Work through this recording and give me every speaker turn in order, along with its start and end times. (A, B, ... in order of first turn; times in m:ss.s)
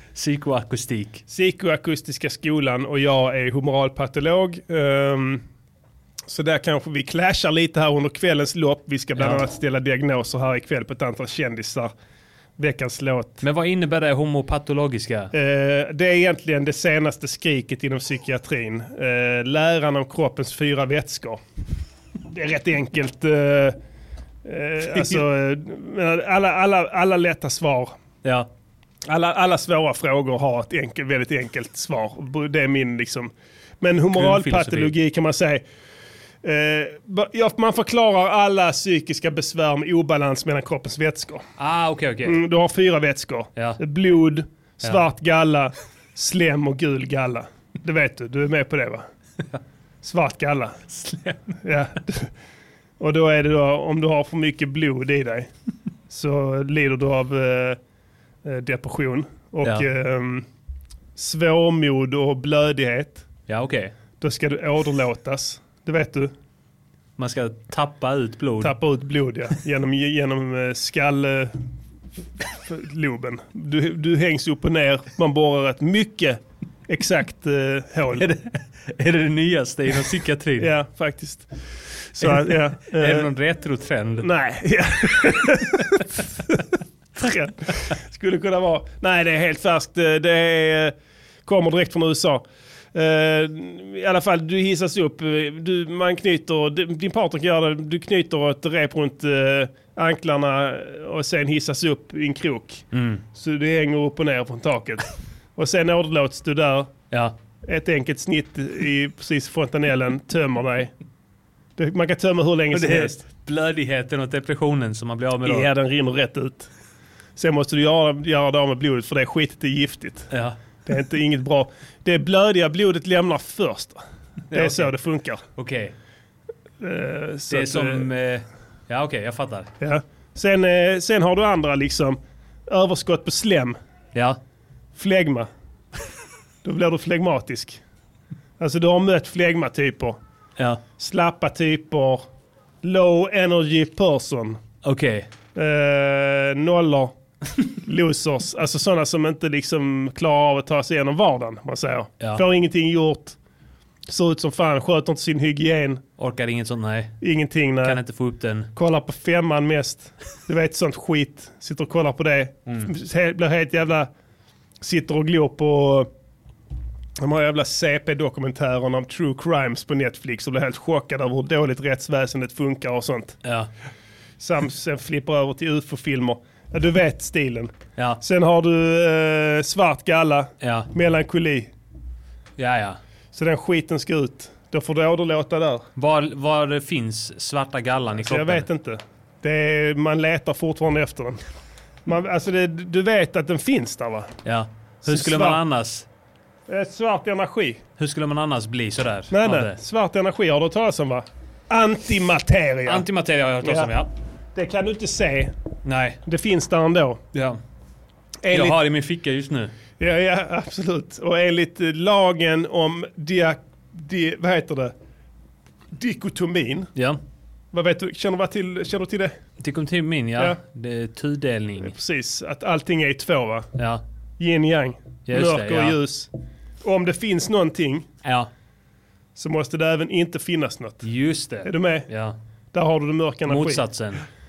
0:00.1-0:01.2 A
0:01.3-0:05.4 B
0:06.3-0:11.9 B
0:09.2-0:09.4 A
0:12.6-0:13.4 B
0:13.4-0:15.3 A
0:15.3-0:21.4 B
0:22.3-0:23.8 B
0:24.4-0:27.9 B
0:24.9-0:25.2 A
0:29.1-0:35.6 B
0:34.1-0:34.9 A
0:36.4-0:41.4 B
0:41.6-0:42.4 A
0:42.2-0:49.1 B
0:50.0-0:50.8 B
0:50.9-0:51.6 A
0:51.6-0:52.3 B
0:53.0-0:55.5 B
0:56.1-0:57.8 B
0:58.4-1:00.4 B
1:01.2-1:03.2 B
1:03.5-1:03.9 A
1:04.2-1:06.3 B
1:07.2-1:08.8 A
1:08.6-1:11.6 B
1:12.6-1:18.2 B
1:18.2-1:20.7 A
1:20.6-1:21.5 B
1:22.1-1:23.3 B
1:22.2-1:24.3 A
1:24.2-1:26.2 B
1:27.2-1:30.9 B
1:31.4-1:45.0 B
1:42.9-1:43.2 A
1:45.6-1:46.9 B
1:47.7-1:50.9 B
1:51.8-1:53.2 B
1:52.7-1:55.7 A
1:55.4-1:56.7 B
1:57.4-2:00.3 B
2:00.3-2:00.6 A
2:00.9-2:04.0 B
2:04.5-2:04.9 A
2:04.5-2:05.4 B
2:05.6-2:05.9 A
2:06.8-2:08.0 B
2:07.5-2:09.7 A
2:09.8-2:13.8 B
2:15.0-2:15.5 B
2:16.6-2:17.8 B
2:18.6-2:20.2 B
2:20.6-2:20.8 A
2:21.0-2:22.2 B
2:22.8-2:24.6 B
2:24.8-2:25.3 A
2:25.6-2:27.1 B
2:27.8-2:33.4 B
2:34.1-2:36.0 B
2:36.2-2:37.2 A
2:37.2-2:38.0 B
2:37.8-2:38.7 A
2:38.8-2:44.1 B
2:44.8-2:46.1 B
2:47.2-2:53.4 B
2:53.4-2:53.7 A
2:54.4-3:01.7 B
3:00.6-3:00.9 A
3:02.6-3:03.0 A
3:03.3-3:05.9 B
3:06.0-3:08.7 A
3:08.2-3:11.4 B
3:12.0-3:14.3 B
3:14.4-3:16.1 A
3:15.1-3:15.6 B
3:16.7-3:17.8 B
3:18.0-3:19.8 A
3:19.3-3:23.0 B
3:22.9-3:24.1 A
3:23.6-3:23.9 B
3:24.6-3:25.5 B
3:25.8-3:26.2 A
3:26.2-3:27.2 B
3:28.4-3:28.8 B
3:28.5-3:29.7 A
3:30.0-3:34.9 B
3:36.0-3:36.9 B
3:37.7-3:39.3 B
3:39.6-3:41.9 A
3:41.8-3:43.7 B
3:43.8-3:44.0 A
3:44.4-3:46.3 B
3:45.3-3:46.0 A
3:46.8-3:48.1 B
3:48.2-3:48.5 A
3:49.4-3:51.1 B
3:51.0-3:52.4 A
3:51.6-3:52.1 B
3:52.7-3:53.8 B
3:53.5-3:54.2 A